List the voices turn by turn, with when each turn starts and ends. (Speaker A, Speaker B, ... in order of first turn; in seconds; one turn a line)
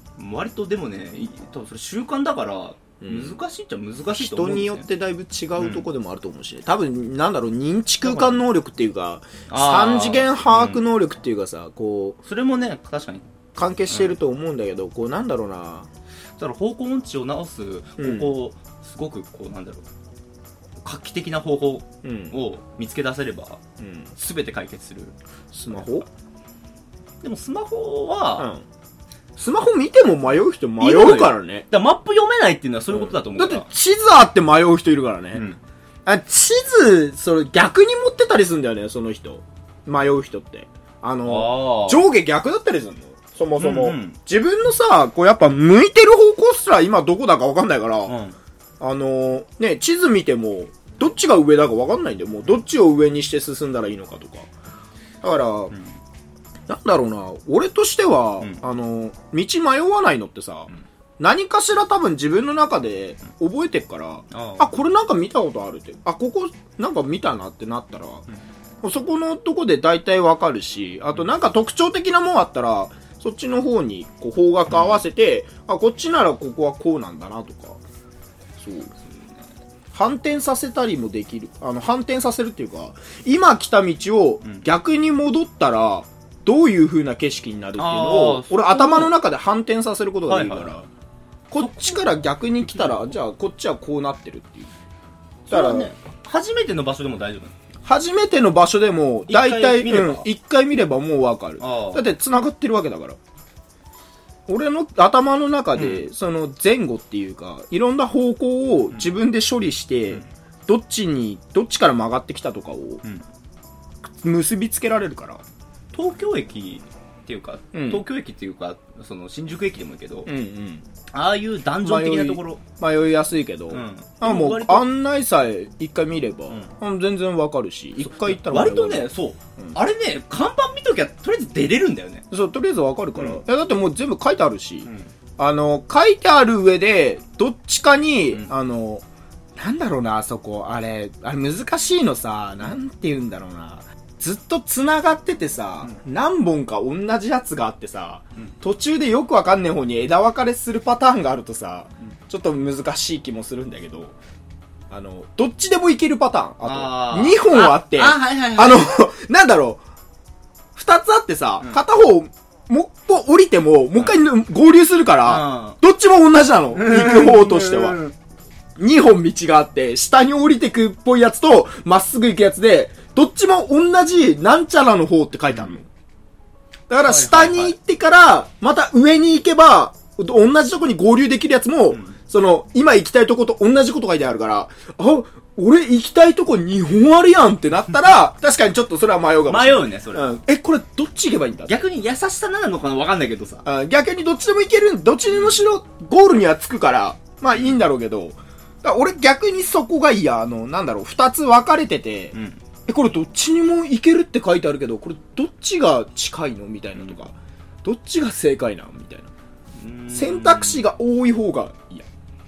Speaker A: 0.2-4.9
Speaker B: 3.0-3.4
Speaker B: 4.1-12.2
Speaker A: 5.6-5.9
Speaker A: 8.0-8.4
Speaker A: 9.5-10.8
Speaker A: 12.2-13.3
Speaker B: 13.6-15.9
Speaker A: 13.9-14.1
Speaker A: 16.4-19.8
Speaker B: 18.0-18.3
Speaker A: 20.8-23.6
Speaker B: 22.0-22.3
Speaker B: 23.8-24.1
Speaker A: 24.1-25.1
Speaker B: 25.5-26.1
Speaker A: 27.2-28.5
Speaker B: 28.4-28.6
Speaker B: 29.4-31.6
Speaker A: 30.8-33.7
Speaker B: 32.9-35.4
Speaker A: 35.3-35.6
Speaker B: 36.0-48.1
Speaker A: 41.2-42.0
Speaker A: 43.6-44.2
Speaker A: 48.0-48.4
Speaker B: 48.8-54.5
Speaker B: 55.2-55.7
Speaker B: 56.7-68.2
Speaker A: 64.3-64.7
Speaker B: 68.8-77.8
Speaker A: 74.7-75.0
Speaker B: 78.6-78.9
Speaker A: 79.0-79.4
Speaker B: 79.9-90.9
Speaker A: 87.8-89.1
Speaker A: 90.3-90.7
Speaker B: 91.5-94.7
Speaker A: 91.6-93.1
Speaker A: 95.5-97.5
Speaker B: 95.5-95.9
Speaker B: 97.8-103.2
Speaker A: 99.3-100.3
Speaker A: 101.6-102.0
Speaker B: 104.5-113.0
Speaker A: 105.7-106.0
Speaker B: 114.0-115.4
Speaker A: 115.9-120.3
Speaker B: 117.7-118.0
Speaker B: 120.2-120.8
Speaker A: 121.1-122.6
Speaker B: 121.8-129.8
Speaker A: 123.7-124.8
Speaker A: 128.0-132.2
Speaker B: 132.3-139.0
Speaker A: 133.2-133.4
Speaker A: 134.8-135.1
Speaker B: 139.6-154.1
Speaker B: 154.9-159.8
Speaker A: 156.6-158.9
Speaker B: 160.7-168.0
Speaker A: 165.2-165.8
Speaker A: 166.7-168.1
Speaker B: 168.8-175.9
Speaker B: 176.9-191.8
Speaker A: 177.0-177.8
Speaker A: 181.9-182.2
Speaker A: 189.5-190.3
Speaker A: 191.7-193.7
Speaker B: 193.6-202.3
Speaker A: 195.3-195.6
Speaker A: 202.3-202.6
Speaker B: 202.9-209.3
Speaker A: 209.8-210.8
Speaker B: 210.1-212.1